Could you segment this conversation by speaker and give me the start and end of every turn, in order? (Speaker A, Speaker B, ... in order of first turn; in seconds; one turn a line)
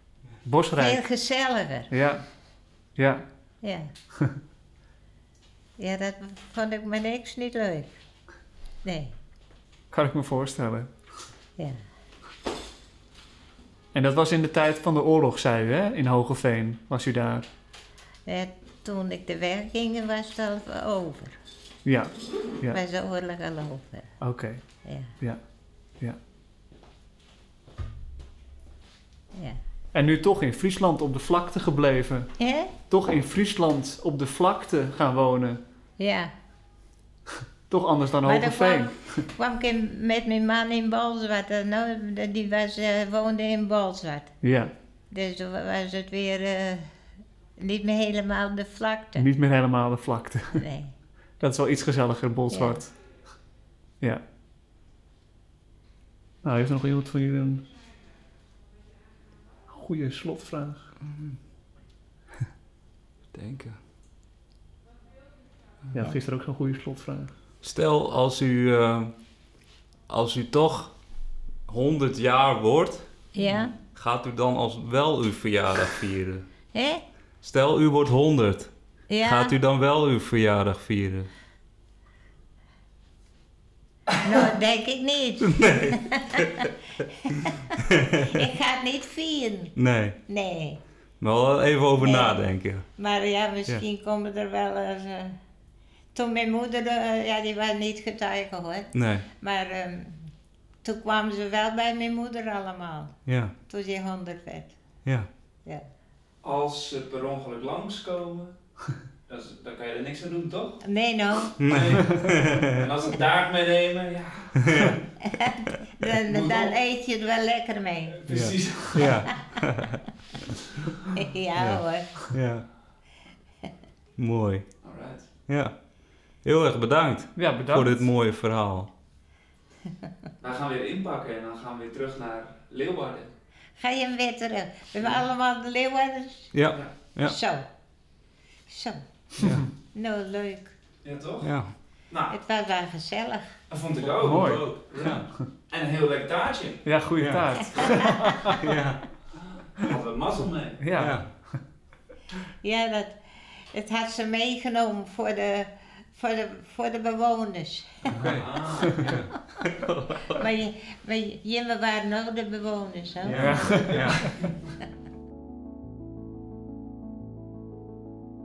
Speaker A: 0.4-1.0
Speaker B: 0.8-1.9
Speaker A: 1.9-2.2
Speaker A: 3.0-3.3
Speaker B: 3.6-3.9
Speaker B: 5.8-8.0
Speaker B: 8.8-9.2
Speaker A: 9.9-10.9
Speaker A: 13.9-17.5
Speaker B: 18.3-21.4
Speaker A: 21.9-22.8
Speaker B: 22.7-24.2
Speaker A: 24.2-24.6
Speaker B: 24.8-25.1
Speaker B: 29.3-29.6
Speaker A: 29.9-32.3
Speaker B: 32.4-32.7
Speaker A: 32.9-35.6
Speaker B: 36.0-36.3
Speaker A: 37.7-39.2
Speaker B: 38.2-44.4
Speaker A: 44.4-44.7
Speaker B: 45.1-46.9
Speaker B: 47.6-49.3
Speaker A: 49.2-50.6
Speaker B: 50.5-50.9
Speaker A: 51.4-53.0
Speaker B: 52.5-52.8
Speaker A: 56.4-57.6
Speaker A: 59.7-60.9
Speaker C: 61.0-61.4
Speaker C: 63.3-63.8
Speaker A: 65.9-67.3
Speaker C: 67.6-69.1
Speaker C: 70.1-70.9
Speaker C: 71.7-73.1
Speaker B: 73.3-73.8
Speaker C: 73.9-76.5
Speaker B: 76.7-77.0
Speaker C: 77.4-78.7
Speaker B: 79.1-79.6
Speaker C: 79.2-81.3
Speaker B: 84.2-89.8
Speaker C: 85.5-86.5
Speaker C: 88.0-88.4
Speaker C: 89.8-90.2
Speaker B: 90.3-90.8
Speaker C: 91.2-92.9
Speaker B: 92.0-95.4
Speaker B: 96.1-100.3
Speaker C: 99.0-99.3
Speaker B: 100.8-104.7
Speaker C: 103.3-103.5
Speaker D: 106.4-108.5
Speaker D: 109.3-110.8
Speaker B: 110.8-111.5
Speaker C: 111.6-112.8
Speaker D: 111.6-115.0
Speaker C: 114.7-115.0
Speaker B: 115.2-118.2
Speaker D: 116.2-116.8
Speaker D: 118.1-119.2
Speaker A: 118.3-118.6
Speaker C: 118.3-120.0
Speaker B: 119.3-119.6
Speaker B: 121.1-122.1
Speaker C: 121.6-122.7
Speaker C: 124.2-124.7
Speaker D: 124.8-125.3
Speaker C: 125.5-125.7
Speaker C: 126.4-128.9
Speaker A: 127.4-128.1
Speaker D: 130.4-133.3
Speaker B: 133.8-136.5
Speaker D: 135.0-135.2
Speaker C: 136.5-137.4
Speaker B: 137.2-137.7
Speaker B: 138.7-139.0
Speaker C: 139.4-139.6
Speaker B: 139.9-140.8
Speaker D: 141.0-141.5
Speaker C: 141.4-141.7
Speaker D: 142.1-142.3
Speaker B: 142.3-143.6
Speaker D: 143.7-146.9
Speaker C: 144.1-145.3
Speaker A: 144.2-144.6
Speaker A: 146.8-148.8
Speaker C: 147.2-149.0
Speaker D: 149.4-150.9
Speaker A: 150.8-151.6
Speaker C: 151.0-151.3
Speaker B: 152.6-158.1
Speaker C: 158.1-160.4
Speaker D: 158.2-159.1
Speaker B: 160.3-163.8
Speaker C: 163.2-164.4
Speaker A: 163.4-164.2
Speaker D: 163.6-164.7